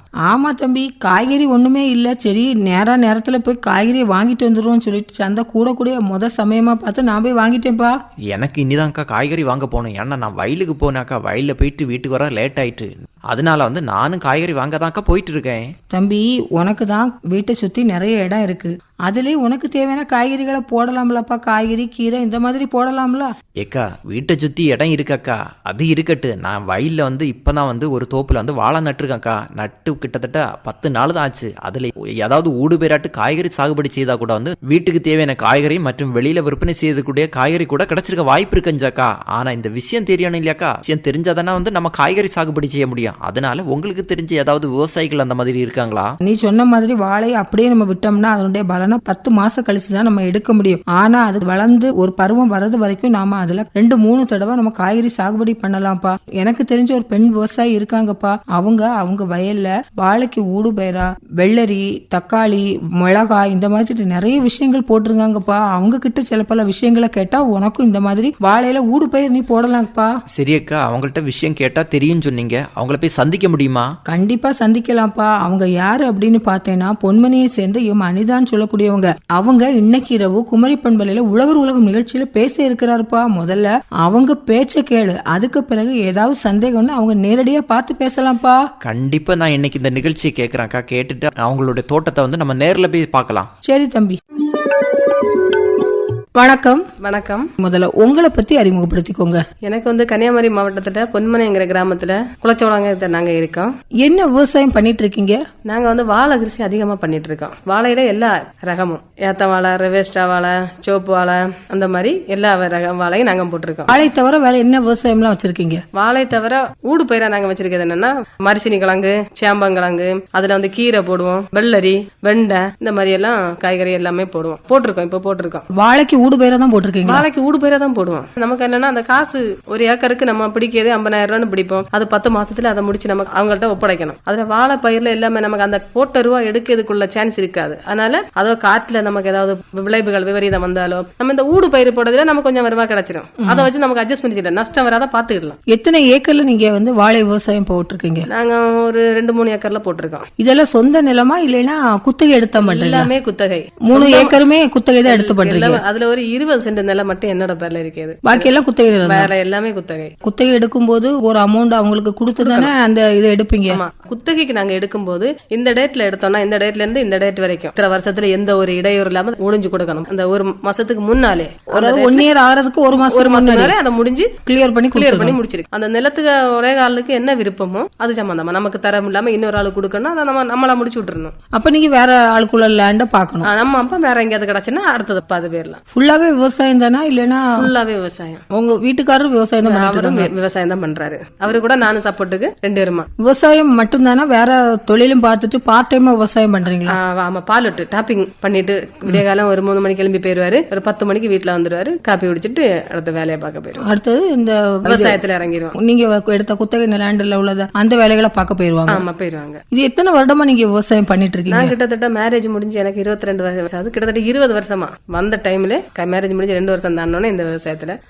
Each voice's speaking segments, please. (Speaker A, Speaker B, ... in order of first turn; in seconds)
Speaker A: 0.3-8.0, 15.9-23.3, 46.2-70.1, 74.1-88.6, 93.6-94.2, 96.4-96.8, 97.6-99.4, 104.0-105.4, 113.9-115.8, 125.7-127.2, 143.4-143.7, 145.7-148.3, 150.4-153.1, 153.9-155.8, 158.2-159.3, 160.2-163.8, 171.7-173.8, 174.5-175.4, 181.6-183.5, 185.9-187.5, 188.5-190.3, 193.2-197.0, 203.8-205.2, 205.8-209.1, 209.7-211.8
Speaker B: 8.3-15.7, 23.6-46.1, 70.3-73.9, 88.8-93.5
Speaker C: 97.0-97.5, 99.7-103.7, 105.7-114.0, 116.0-125.6, 127.1-145.6, 148.3-150.2, 152.6-154.4, 155.1-158.5, 159.0-160.1, 162.4-162.7, 163.7-172.3, 173.1-174.3, 174.9-181.3, 183.4-185.8, 187.5-188.4, 189.6-193.1, 196.9-203.8, 204.9-205.7, 208.9-209.6, 211.5-218.0